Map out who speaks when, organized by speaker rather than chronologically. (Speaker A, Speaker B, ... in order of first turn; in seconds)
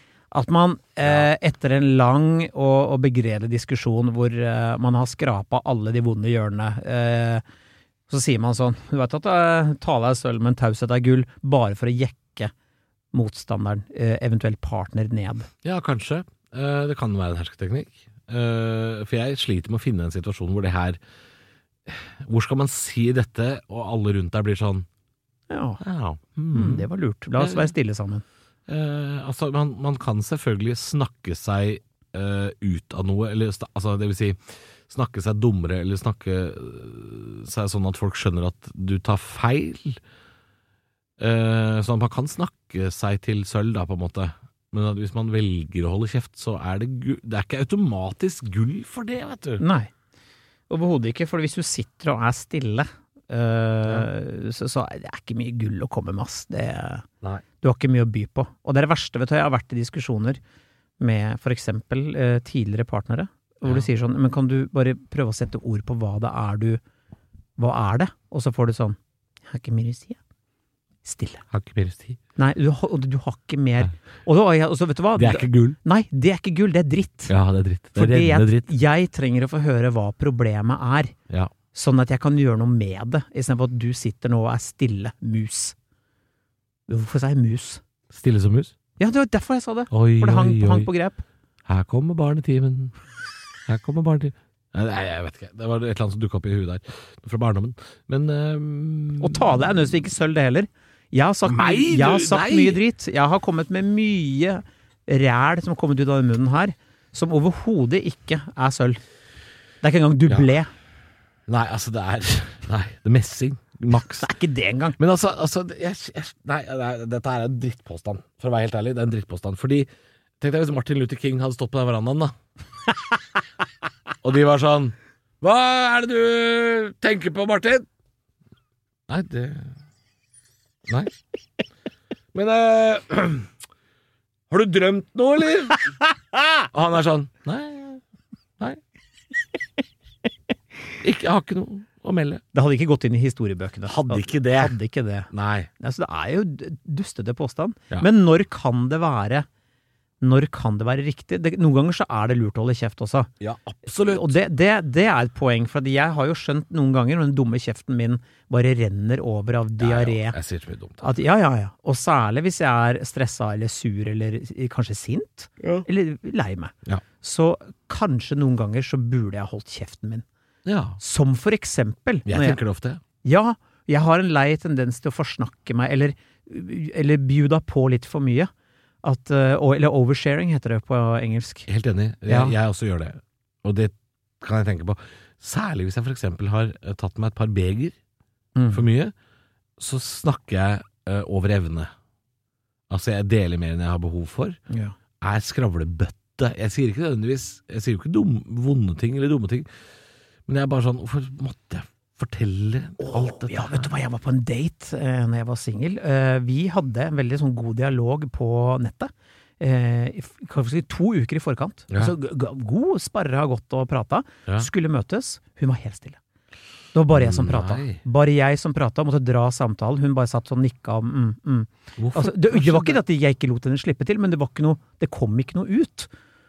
Speaker A: 0.3-7.4, 8.1-12.5, 13.1-15.5, 25.5-25.8, 26.5-28.2, 49.6-49.9, 50.7-57.1, 57.6-60.4, 61.0-66.8, 67.6-69.0, 69.5-70.2, 71.0-71.4, 72.4-77.3, 77.9-81.1, 81.7-85.8, 86.9-87.8, 89.0-91.2, 99.2-109.0, 109.8-110.7, 114.2-115.0, 142.5-149.5, 150.2-153.3, 154.0-160.4, 161.0-170.2, 171.0-172.6, 173.2-178.5, 179.0-181.7, 182.3-182.5, 188.6-188.8, 194.7-194.9, 203.0-216.2, 216.9-226.1
Speaker B: 15.6-21.0, 21.9-24.9, 25.8-27.7, 28.7-40.0, 41.2-49.6, 71.5-72.2, 75.2-75.8, 77.3-78.7, 88.1-88.7, 89.9-90.9, 91.7-93.0, 93.7-99.8, 101.4-102.8, 111.5-114.3, 115.0-119.9, 120.4-122.3, 124.2-127.8, 129.1-129.8, 130.9-131.1, 132.3-133.5, 134.5-135.9, 136.7-138.0, 141.0-142.4, 143.8-144.8, 145.3-145.7, 153.4-154.3, 159.8-161.0, 170.6-171.0, 172.3-173.0, 181.7-187.9, 188.7-189.1, 189.8-191.9, 192.9-194.6, 195.2-199.7, 200.5-203.9, 217.1-218.0, 222.0-223.0